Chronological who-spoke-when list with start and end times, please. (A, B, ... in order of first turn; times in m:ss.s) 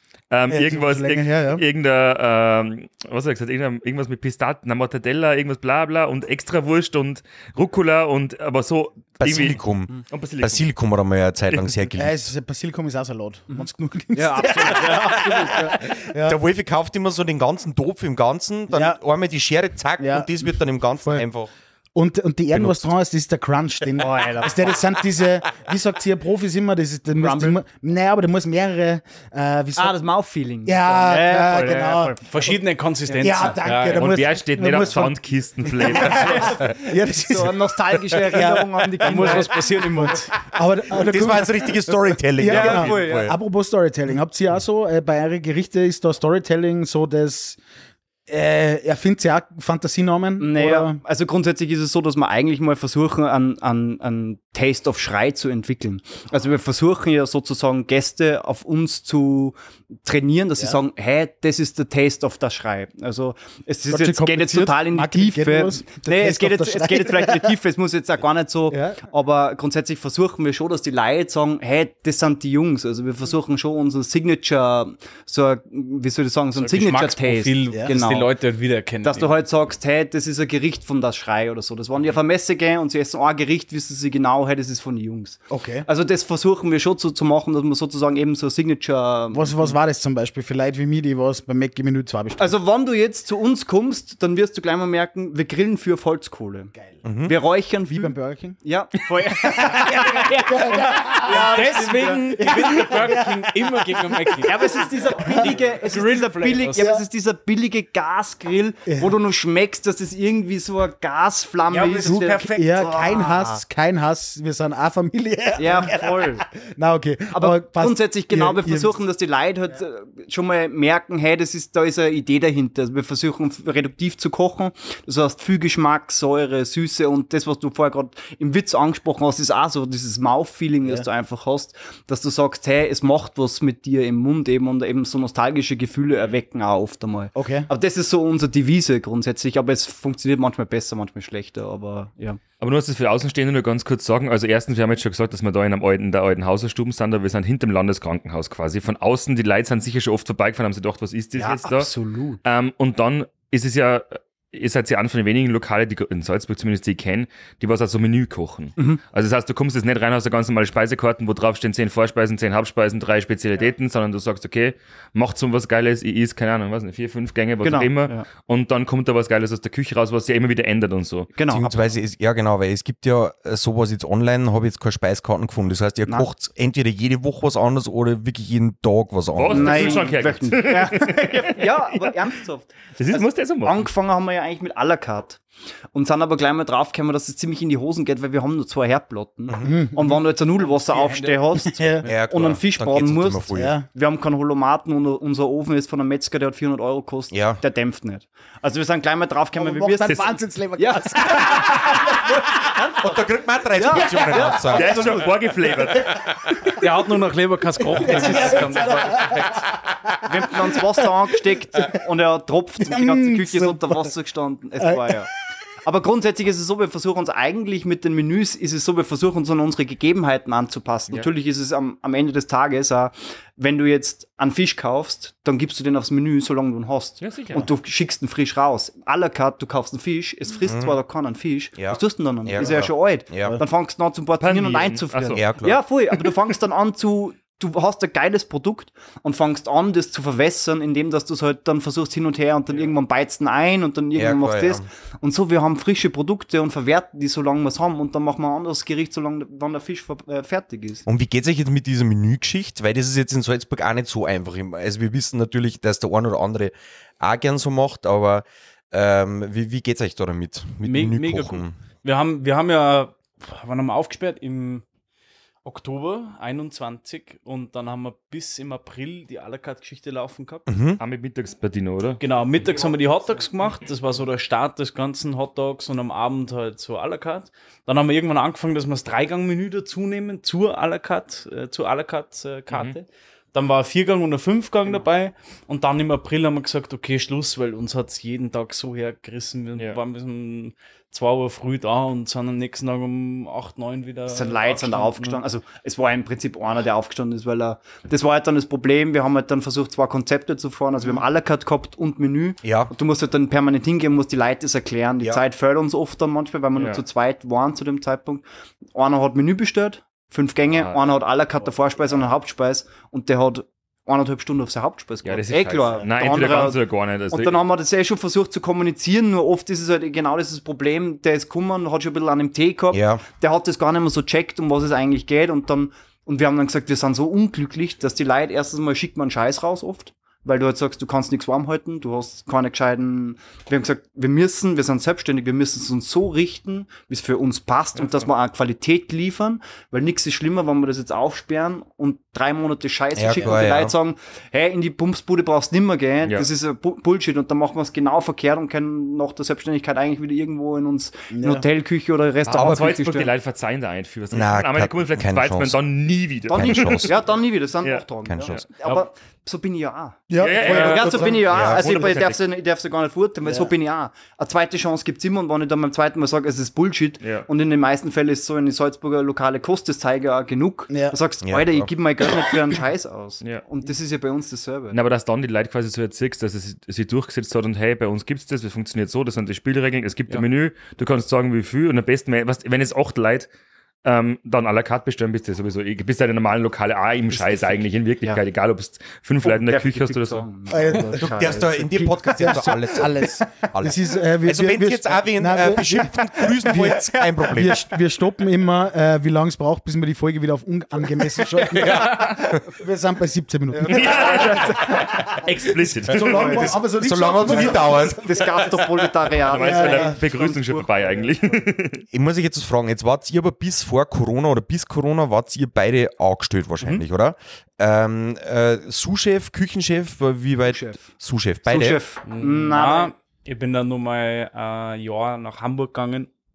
0:00.3-0:10.7 A
0:00.5-0:01.6 B
0:09.2-0:12.2 C
0:11.5-0:11.9 A
0:11.9-0:16.4 B
0:13.5-0:15.8 D
0:14.9-0:21.5 C
0:18.7-0:19.0 B
0:20.0-0:20.3 B
0:21.9-0:30.0 B
0:24.0-0:24.8 D
0:27.1-0:27.6 D
0:29.8-0:32.2 D
0:30.6-0:32.2 B
0:32.2-0:34.2 E
0:33.1-0:33.4 D
0:33.2-0:47.6 B
0:33.9-0:36.7 A
0:36.0-0:39.7 D
0:39.0-0:40.3 E
0:40.9-0:43.4 C
0:42.4-0:43.3 D
0:48.3-0:51.0 B
0:50.4-1:18.3 D
1:03.9-1:07.5 B
1:08.7-1:09.0 B
1:16.6-1:19.4 E
1:19.0-1:29.8 D
1:25.5-1:25.8 B
1:29.3-1:32.6 B
1:32.4-1:42.6 D
1:36.8-1:37.1 B
1:37.0-1:37.3 C
1:37.9-1:38.6 B
1:39.3-1:45.6 B
1:41.2-1:44.5 E
1:44.4-1:53.2 D
1:45.4-1:46.9 E
1:46.8-1:47.0 B
1:48.9-1:49.2 B
1:51.7-1:53.6 E
1:52.0-1:58.9 B
1:55.6-1:56.4 D
1:57.3-2:22.4 D
2:17.4-2:17.7 B
2:22.6-2:31.9 A
2:31.4-2:32.4 D
2:32.4-2:51.3 A
2:47.6-2:48.2 D
2:51.3-2:51.7 D
2:51.5-3:00.2 C
2:59.3-3:02.3 A
2:59.5-3:25.9 D
3:03.0-3:03.9 A
3:09.5-3:09.7 C
3:09.6-3:10.0 B
3:10.0-3:12.3 E
3:11.7-3:12.0 B
3:12.0-3:13.7 C
3:13.5-3:13.8 B
3:17.3-3:17.6 C
3:19.5-3:22.3 B
3:23.0-3:25.2 C
3:23.9-3:24.8 B
3:24.7-3:26.1 A
3:25.9-3:26.6 B
3:26.8-3:29.3 E
3:27.9-3:31.0 B
3:28.1-3:29.4 D
3:30.3-3:35.3 D
3:32.8-3:34.1 B
3:34.8-3:35.2 B
3:35.8-4:11.0 D
3:47.2-3:47.6 A
3:50.7-3:51.0 C
3:51.8-3:53.6 C
3:54.4-3:55.4 A
3:55.3-3:55.8 C
4:04.1-4:04.8 C
4:11.1-4:21.7 C
4:20.8-4:24.8 E
4:25.6-4:30.7 E
4:30.7-4:31.0 C
4:31.0-4:32.2 A
4:32.2-4:55.4 E
4:42.7-4:42.9 A
4:54.3-5:53.3 D
5:02.6-5:02.9 C
5:06.8-5:07.0 A
5:10.7-5:11.0 A
5:15.2-5:17.6 A
5:22.9-5:23.2 C
5:38.0-5:38.2 A
5:43.1-5:43.9 C
5:51.3-5:51.6 B
5:52.5-5:57.2 A
5:52.5-5:52.9 C
5:54.3-5:55.8 C
5:56.5-6:15.0 D
5:56.5-5:57.2 C
5:57.8-5:58.6 A
5:58.2-5:58.6 C
6:00.3-6:01.4 B
6:00.4-6:02.4 A
6:01.5-6:01.9 C
6:03.4-6:03.7 B
6:07.2-6:07.5 A
6:10.9-6:11.2 B
6:11.4-6:11.9 C
6:14.9-6:23.5 A
6:24.0-6:30.4 A
6:27.3-6:28.4 D
6:29.4-6:32.5 D
6:30.7-6:31.6 B
6:31.2-6:37.8 C
6:32.3-6:45.4 B
6:41.7-6:42.6 C
6:43.7-6:45.0 D
6:43.8-6:46.7 A
6:46.0-6:48.3 B
6:46.1-6:48.3 C
6:46.4-6:46.6 D
6:47.5-6:51.3 D
6:49.4-6:52.0 A
6:49.6-6:50.2 B
6:52.1-7:02.0 C
7:00.7-7:01.1 D
7:01.6-7:03.1 D
7:02.2-7:06.3 E